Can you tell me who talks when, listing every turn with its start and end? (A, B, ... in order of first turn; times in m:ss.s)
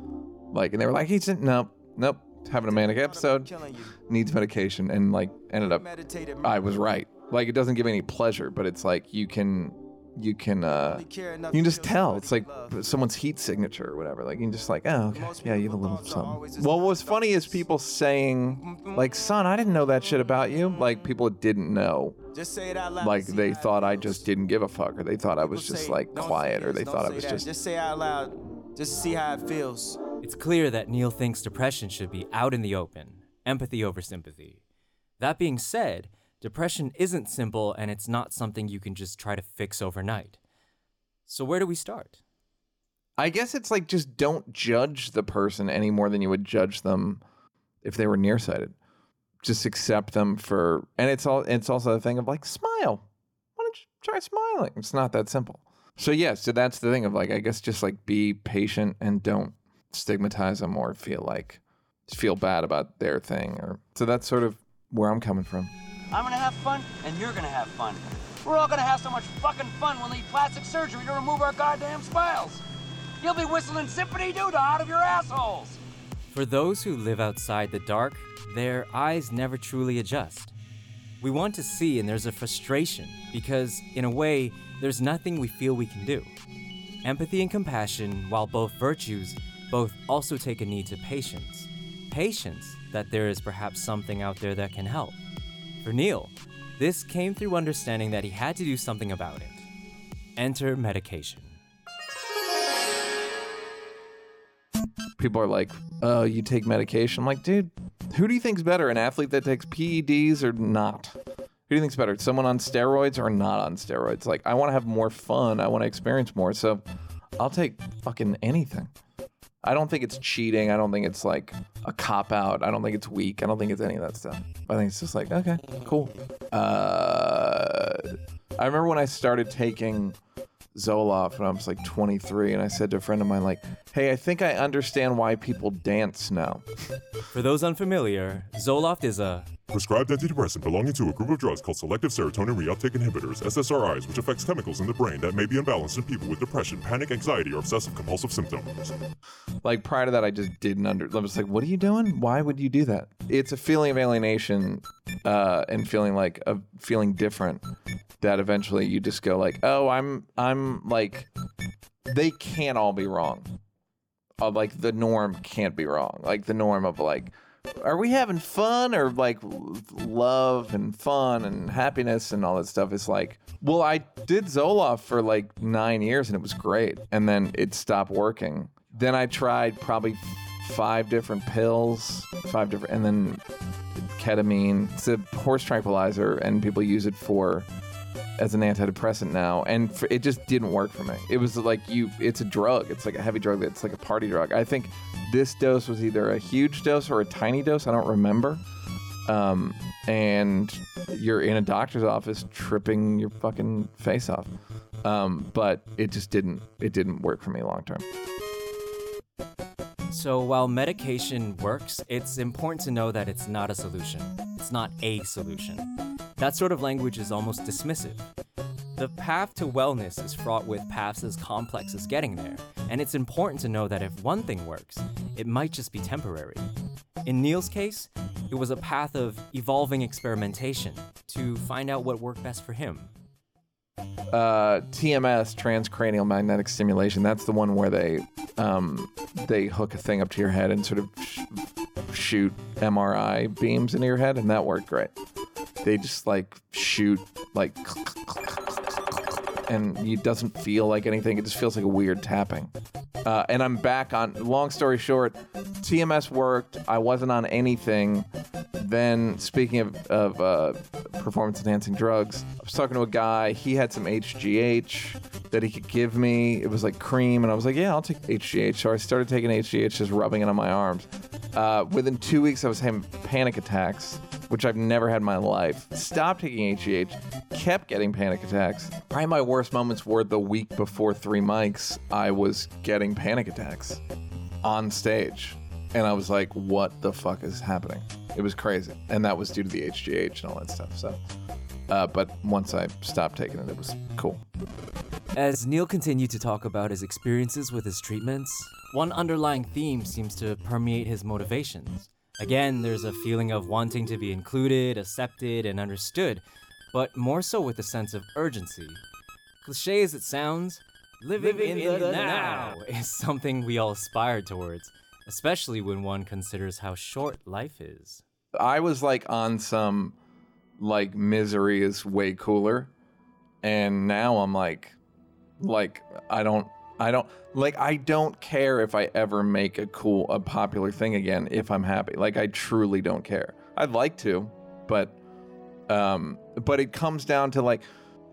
0:00.5-0:03.5 A
0:02.7-0:03.9 B
0:04.1-0:05.8 A
0:05.6-0:06.6 B
0:06.4-0:22.2 A
0:10.7-0:12.8 B
0:15.1-0:17.6 B
0:18.7-0:19.0 B
0:22.3-0:24.3 B
0:23.0-0:27.5 A
0:25.4-0:30.0 B
0:30.2-0:34.6 C
0:35.2-0:40.4 C
0:41.3-0:42.2 C
0:43.2-0:47.2 A
0:47.8-0:48.7 A
0:49.4-0:53.0 A
0:53.6-1:05.7 A
1:06.1-1:12.6 D
1:13.2-1:15.8 D
1:16.3-1:20.5 C
1:21.2-1:26.3 C
1:27.0-1:35.2 C
1:35.8-1:39.7 C
1:40.4-1:41.6 C
1:45.2-1:51.1 A
1:51.7-1:56.8 A
1:57.4-1:58.9 A
1:59.6-2:10.2 A
2:10.7-2:16.6 A
2:17.3-2:19.5 C
2:19.7-2:28.9 E
2:29.6-2:37.6 A
2:38.2-2:41.3 A
2:42.0-2:43.5 A
2:44.4-3:03.4 A
3:04.0-3:07.7 A
3:08.4-3:18.6 A
3:19.2-3:24.5 A
3:25.0-3:28.0 A
3:30.1-3:38.3 C
3:38.9-3:46.7 C
3:47.2-3:53.1 C
3:54.3-4:05.1 A
4:05.8-4:12.7 A
4:13.2-4:44.0 A
4:44.6-4:51.2 A
4:51.9-4:54.4 A
4:55.3-5:09.0 C
5:09.6-5:18.2 C
5:11.4-5:12.5 D
5:18.6-5:20.2 A
5:20.8-5:22.9 A
5:23.6-5:25.0 A
5:25.6-5:35.2 A
5:35.9-5:37.8 A